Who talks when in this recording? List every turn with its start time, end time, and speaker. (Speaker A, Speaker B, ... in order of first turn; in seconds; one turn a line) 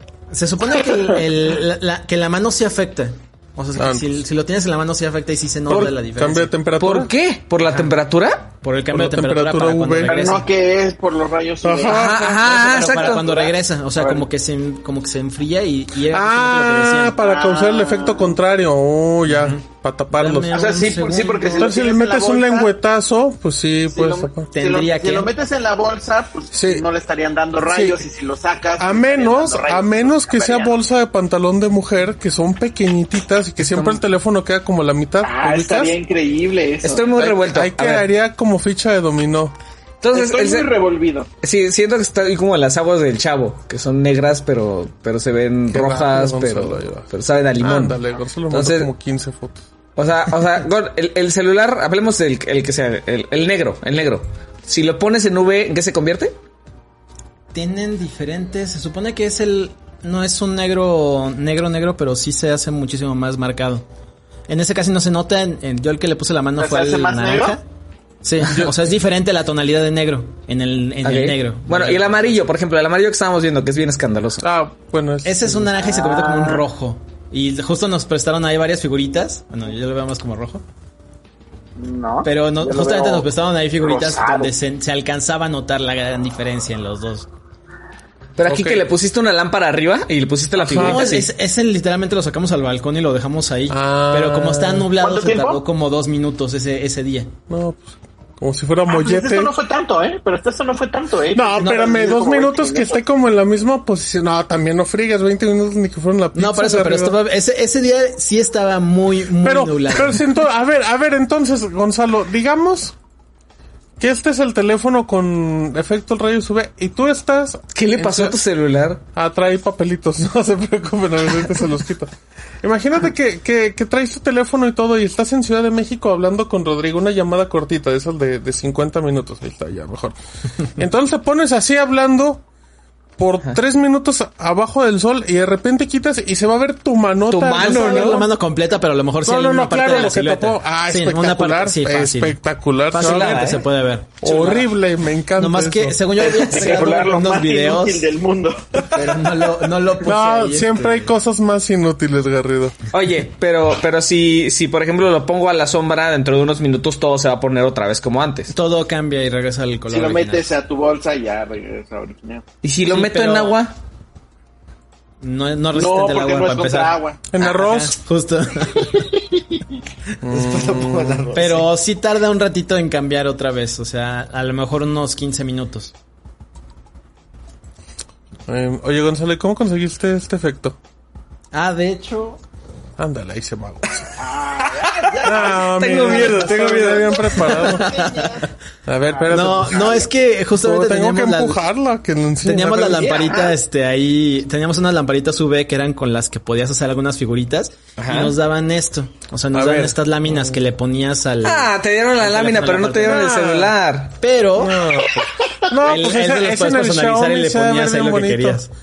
Speaker A: 0.3-6.5
Speaker B: 3.8-4.1
Speaker B: 5.7-7.1
Speaker C: 6.8-8.5
Speaker A: 7.6-8.0
Speaker A: 8.6-10.5
Speaker B: 8.9-10.2
Speaker D: 10.0-12.1
Speaker B: 11.6-12.6
Speaker C: 11.9-13.3
Speaker A: 12.5-17.2
Speaker D: 12.6-14.2
Speaker B: 16.1-20.9
Speaker D: 17.1-18.4
Speaker A: 19.3-21.8
Speaker D: 20.5-22.7
Speaker C: 20.6-20.9
Speaker B: 21.6-24.5
Speaker D: 23.9-30.7
Speaker A: 24.5-25.3
Speaker B: 26.5-26.8
Speaker B: 27.7-28.0
Speaker B: 28.8-36.0
Speaker C: 33.6-34.0
Speaker D: 35.2-37.2
Speaker C: 36.8-38.1
Speaker B: 37.2-39.5
Speaker C: 40.0-40.7
Speaker D: 40.1-41.3
Speaker C: 41.4-48.9
Speaker B: 45.7-49.6
Speaker C: 50.0-56.3
Speaker A: 57.5-63.8
Speaker A: 64.5-67.6
Speaker D: 66.6-67.6
Speaker A: 68.2-72.4
Speaker C: 71.0-74.4
Speaker B: 74.4-75.7
Speaker A: 75.2-80.6
Speaker D: 75.8-76.6
Speaker D: 81.8-83.3
Speaker A: 82.2-87.3
Speaker D: 83.8-84.5
Speaker C: 88.4-91.3
Speaker B: 88.4-88.8
Speaker B: 90.5-91.0
Speaker A: 90.7-97.3
Speaker B: 93.7-94.9
Speaker D: 95.0-95.6
Speaker B: 97.5-99.5
Speaker D: 98.9-103.0
Speaker B: 101.3-107.2
Speaker A: 106.3-110.2
Speaker B: 109.4-112.9
Speaker B: 114.0-118.4
Speaker C: 117.7-119.0
Speaker B: 119.1-130.2
Speaker B: 130.7-132.4
Speaker B: 133.2-138.3
Speaker C: 137.3-138.2
Speaker A: 137.6-142.4
Speaker B: 139.2-143.6
Speaker A: 142.9-144.2
Speaker C: 142.9-143.6
Speaker B: 144.2-146.3
Speaker C: 144.2-144.7
Speaker A: 145.4-148.1
Speaker D: 146.2-149.0
Speaker C: 146.5-147.2
Speaker A: 148.9-151.1
Speaker B: 150.0-152.8
Speaker C: 152.9-158.5
Speaker A: 158.5-160.5
Speaker D: 159.9-162.4
Speaker C: 162.6-163.7
Speaker A: 162.9-163.6
Speaker A: 165.2-169.2
Speaker D: 165.7-167.2
Speaker B: 167.3-168.0
Speaker B: 170.2-171.3
Speaker C: 170.3-171.6
Speaker D: 170.5-171.4
Speaker A: 171.3-175.9
Speaker B: 178.5-180.8
Speaker A: 181.5-182.4
Speaker B: 183.0-184.2
Speaker D: 184.2-188.5
Speaker B: 185.2-187.9
Speaker C: 185.4-187.6
Speaker A: 187.4-188.3
Speaker B: 188.8-190.0
Speaker D: 189.1-190.1
Speaker A: 189.3-191.6
Speaker B: 190.6-193.4
Speaker A: 192.4-203.3
Speaker D: 193.0-193.5
Speaker C: 198.0-198.3
Speaker B: 199.5-200.6
Speaker C: 201.4-204.2
Speaker B: 203.0-203.8
Speaker A: 204.2-204.8
Speaker B: 204.6-208.6
Speaker A: 205.8-208.7